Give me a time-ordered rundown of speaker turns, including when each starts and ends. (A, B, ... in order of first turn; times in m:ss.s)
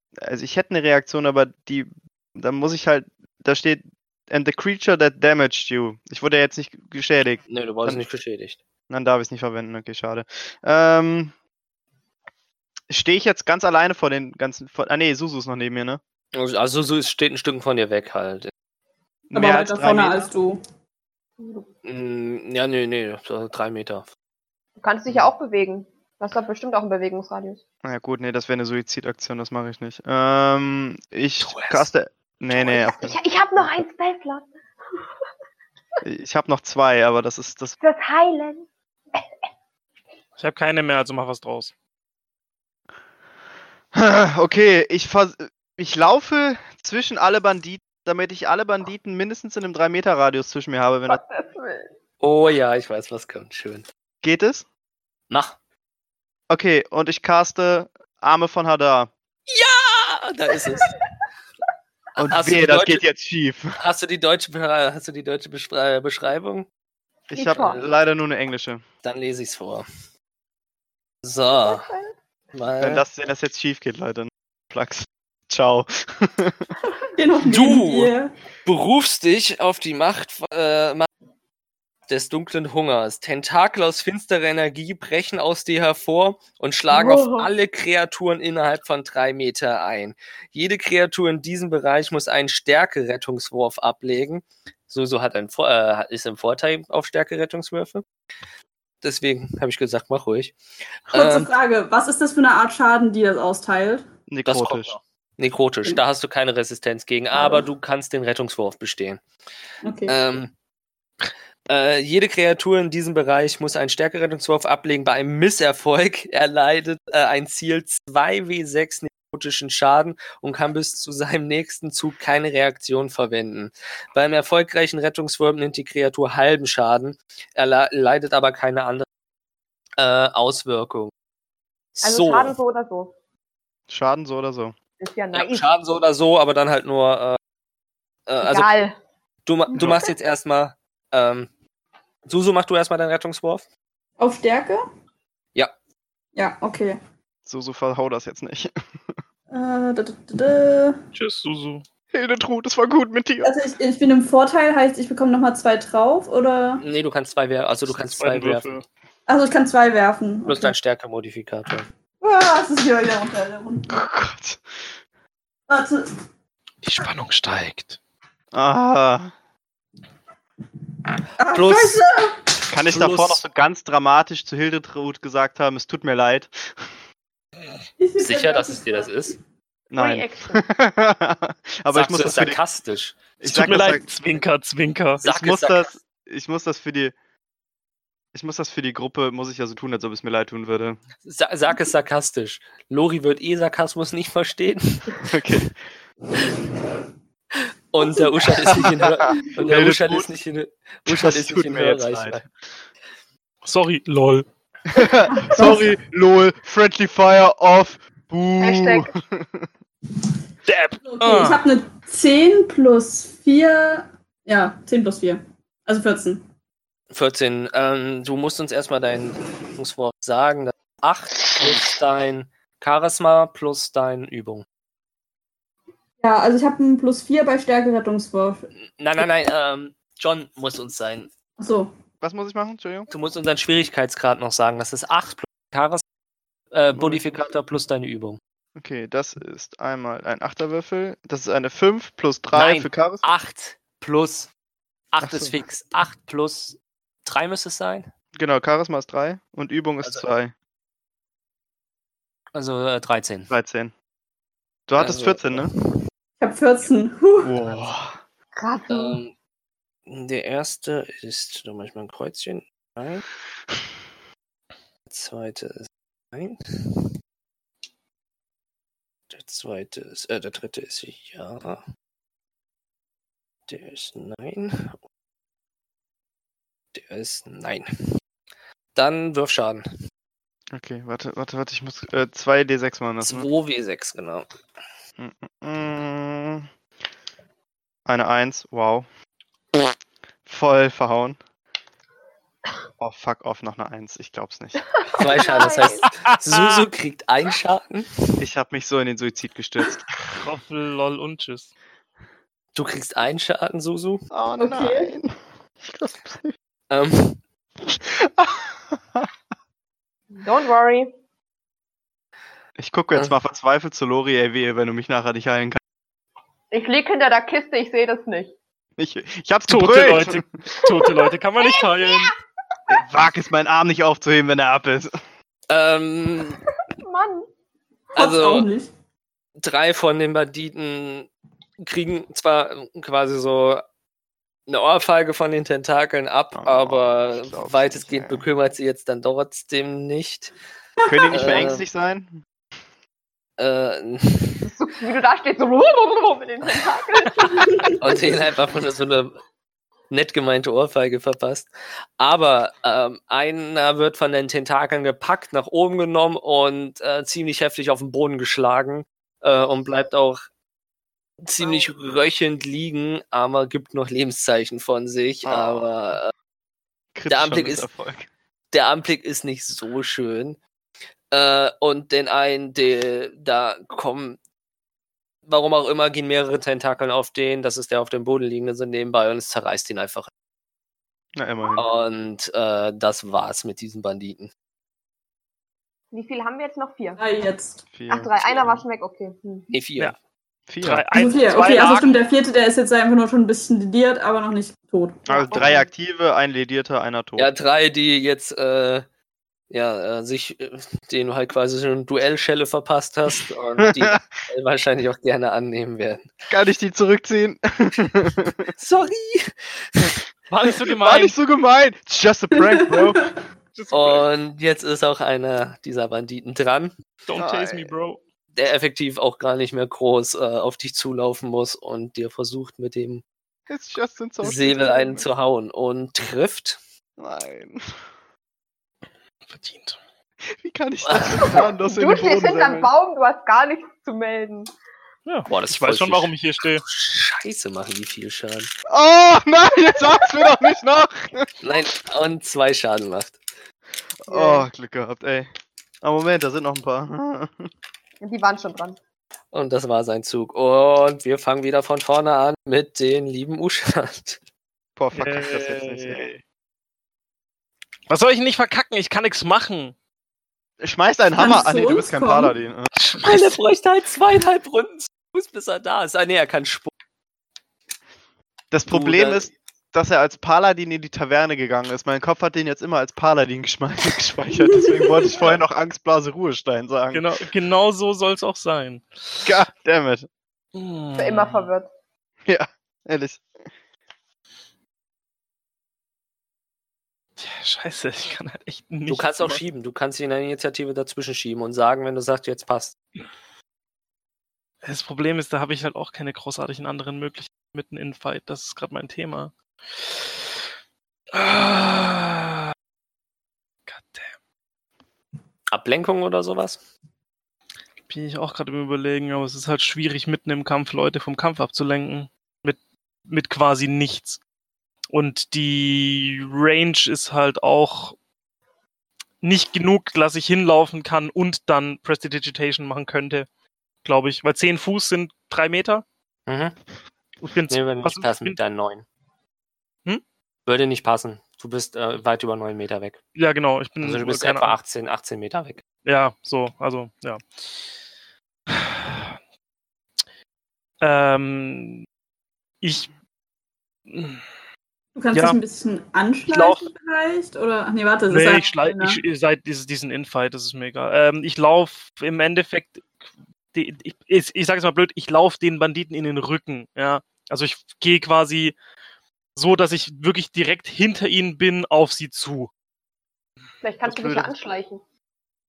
0:00.2-0:08.0 A
0:07.5-0:08.6 B
0:08.9-0:11.3 A
0:12.9-0:16.0 A
0:16.3-0:18.5 B
0:19.3-0:20.3 A
0:19.3-0:20.6 C
0:21.4-0:21.7 D
0:21.8-0:24.1 B
0:24.8-0:27.6 D
0:27.8-0:33.8 A
0:31.4-0:31.9 B
0:32.5-0:34.5 D
0:36.0-0:37.8 A
0:37.8-0:38.6 D
0:40.4-0:41.7 E
0:43.9-0:51.2 A
0:51.1-0:51.9 D
0:52.2-0:53.8 B
0:54.2-0:54.7 A
0:55.3-0:55.6 B
0:56.5-0:59.1 A
0:59.5-1:00.9 B
1:02.2-1:03.8 A
1:02.2-1:03.0 B
1:03.8-1:06.7 B
1:07.3-1:08.8 A
1:07.3-1:07.8 D
1:07.6-1:07.9 B
1:09.0-1:09.8 B
1:11.2-1:11.9 B
1:11.6-1:12.0 D
1:12.5-1:13.0 B
1:12.8-1:16.7 A
1:17.2-1:18.3 C
1:17.5-1:18.1 B
1:18.6-1:21.1 B
1:22.1-1:38.0 B
1:26.9-1:27.5 D
1:39.0-1:40.6 B
1:41.1-1:41.5 B
1:41.1-1:44.0 C
1:44.3-1:44.9 A
1:44.4-1:49.2 B
1:47.3-1:47.6 C
1:49.8-1:50.2 C
1:50.1-1:50.5 B
1:51.7-2:09.1 B
2:10.0-2:11.1 B
2:12.0-2:12.6 B
2:12.0-2:13.1 D
2:13.9-2:14.7 A
2:15.0-2:15.7 D
2:15.3-2:17.4 B
2:18.3-2:18.8 B
2:18.4-2:18.9 D
2:19.4-2:21.5 B
2:19.7-2:20.1 D
2:22.3-2:23.6 B
2:24.2-2:24.8 C
2:26.3-2:27.0 C
2:27.4-2:29.2 A
2:29.5-2:31.0 C
2:31.1-2:31.8 E
2:32.1-2:33.5 A
2:33.4-2:36.8 C
2:36.8-2:38.8 B
2:37.9-2:38.8 E
2:39.3-2:40.7 C
2:40.4-2:41.9 B
2:42.2-2:43.9 C
2:43.9-2:44.6 A
2:45.7-2:46.1 C
2:46.8-2:48.0 E
2:48.5-2:49.3 A
2:51.4-2:52.4 C
2:51.5-2:52.0 B
2:52.7-2:56.9 A
2:52.8-2:53.4 B
2:58.0-2:59.1 C
2:58.2-2:59.4 B
2:59.9-3:02.6 A
2:59.9-3:00.6 D
3:01.9-3:03.2 B
3:03.4-3:04.0 A
3:03.4-3:05.2 E
3:05.2-3:06.0 B
3:05.2-3:07.1 A
3:08.3-3:11.0 A
3:11.2-3:15.2 B
3:15.2-3:15.8 A
3:17.5-3:22.4 B
3:18.7-3:20.3 A
3:21.1-3:22.5 A
3:23.6-3:24.4 E
3:24.9-3:29.7 A
3:25.3-3:26.0 C
3:28.6-3:29.1 D
3:30.6-3:31.6 E
3:31.0-3:36.4 C
3:37.1-3:44.6 B
3:46.2-3:48.7 C
3:48.8-3:51.3 B
3:51.6-3:51.9 C
3:52.2-3:53.1 A
3:53.1-3:56.0 B
3:56.7-3:58.4 B
3:56.9-3:57.2 A
3:58.8-4:03.2 A
4:02.5-4:04.5 B
4:05.1-4:08.1 B
4:05.2-4:05.5 A
4:08.3-4:10.5 A
4:12.5-4:13.5 B
4:13.5-4:13.9 A
4:14.9-4:15.7 A
4:15.0-4:15.7 B
4:16.4-4:17.6 C
4:17.4-4:18.2 A
4:18.6-4:19.2 D
4:18.9-4:19.3 B
4:20.1-4:23.2 B
4:25.1-4:27.0 B
4:29.3-4:31.8 B
4:33.7-4:35.0 B
4:36.9-4:37.9 B
4:38.9-4:39.9 B
4:40.7-4:43.5 A
4:43.2-4:44.5 B
4:45.2-4:46.7 A
4:48.1-4:49.0 A
4:50.4-4:51.4 A
4:53.0-4:54.8 A
4:55.1-4:58.4 B
4:55.3-4:56.1 D
4:56.3-4:56.8 E
4:58.4-5:00.1 A
5:00.4-5:01.7 E
5:02.7-5:04.2 B
5:04.3-5:06.5 A
5:04.6-5:05.1 C
5:06.9-5:07.4 B
5:07.9-5:09.3 A
5:10.4-5:11.1 D
5:12.8-5:15.8 A
5:16.7-5:18.5 D
5:19.0-5:20.4 A
5:19.7-5:22.3 E
5:21.0-5:22.2 D
5:22.9-5:25.2 A
5:25.7-5:26.6 B
5:27.0-5:27.5 D
5:28.1-5:28.9 C
5:28.2-5:28.7 B
5:29.6-5:31.3 B
5:31.8-5:33.8 B
5:34.7-5:40.5 B
5:36.5-5:38.4 A
5:41.0-5:41.6 C
5:41.0-5:42.4 A
5:41.3-5:41.8 B
5:43.6-5:44.6 B
5:44.6-5:48.3 D
5:48.0-5:49.4 B
5:50.1-6:00.4 B
6:01.4-6:06.3 B
6:05.4-6:05.9 A
6:07.1-6:08.3 A
6:07.3-6:07.9 B
6:08.7-6:10.6 B
6:11.3-6:14.4 B
6:15.5-6:20.3 B
6:21.3-6:21.8 A
6:21.8-6:24.5 B
6:26.1-6:27.2 D
6:27.2-6:27.8 C
6:27.9-6:28.8 A
6:28.1-6:29.7 D
6:29.7-6:30.1 B
6:30.7-6:31.1 A
6:30.8-6:32.2 E
6:31.1-6:35.3 C
6:35.3-6:35.9 D
6:35.3-6:37.5 A
6:37.4-6:39.0 B
6:39.7-6:46.3 B
6:43.8-6:44.2 A
6:46.5-6:48.7 A
6:48.8-6:50.2 B
6:50.5-6:51.3 E
6:50.8-6:53.3 A
6:52.8-6:53.1 C
6:53.7-6:54.2 E
6:53.9-6:56.9 B
6:57.2-6:58.2 E
6:57.4-6:57.9 A
6:58.5-7:03.2 B
7:03.7-7:05.2 A
7:04.4-7:06.8 B
7:07.2-7:08.0 A
7:09.5-7:10.0 E
7:10.5-7:12.9 A
7:11.0-7:11.6 B
7:11.4-7:14.7 D
7:15.2-7:16.8 E
7:15.5-7:18.7 B
7:18.9-7:21.5 A
7:21.6-7:23.4 B
7:24.2-7:25.5 A
7:24.3-7:24.7 D
7:26.0-7:27.7 A
7:28.2-7:29.0 D
7:29.5-7:34.4 B
7:35.0-7:36.2 A
7:35.1-7:36.4 E
7:38.1-7:39.9 E
7:40.8-7:42.9 A
7:41.4-7:42.5 C
7:43.0-7:43.5 E
7:43.2-7:46.9 B
7:48.7-7:57.3 A
7:48.9-7:49.5 B
7:54.6-7:55.5 C
7:57.1-7:59.5 E
7:59.4-8:00.3 A
8:00.7-8:01.7 E
8:01.2-8:01.9 D
8:02.4-8:03.4 A
8:07.4-8:09.6 E
8:09.1-8:12.9 B
8:14.8-8:19.5 E
8:21.3-8:22.7 E
8:23.9-8:24.3 E
8:25.7-8:26.8 B
8:28.1-8:34.4 E
8:35.1-8:38.2 E
8:39.4-8:43.5 E
8:44.0-8:46.0 E
8:46.5-8:46.8 B
8:47.4-8:48.6 E
8:47.7-8:49.0 B
8:50.6-8:53.2 B
8:53.3-8:54.8 E
8:54.0-8:55.8 B
8:56.0-8:57.4 E
8:58.7-8:59.3 E
9:01.0-9:02.0 E
9:02.8-9:03.1 E
9:04.1-9:04.4 E
9:05.2-9:09.2 C
9:05.3-9:05.6 E
9:06.5-9:06.8 E
9:08.3-9:13.1 E
9:13.7-9:18.8 E
9:19.5-9:22.7 E
9:23.8-9:25.0 D
9:24.0-9:24.5 E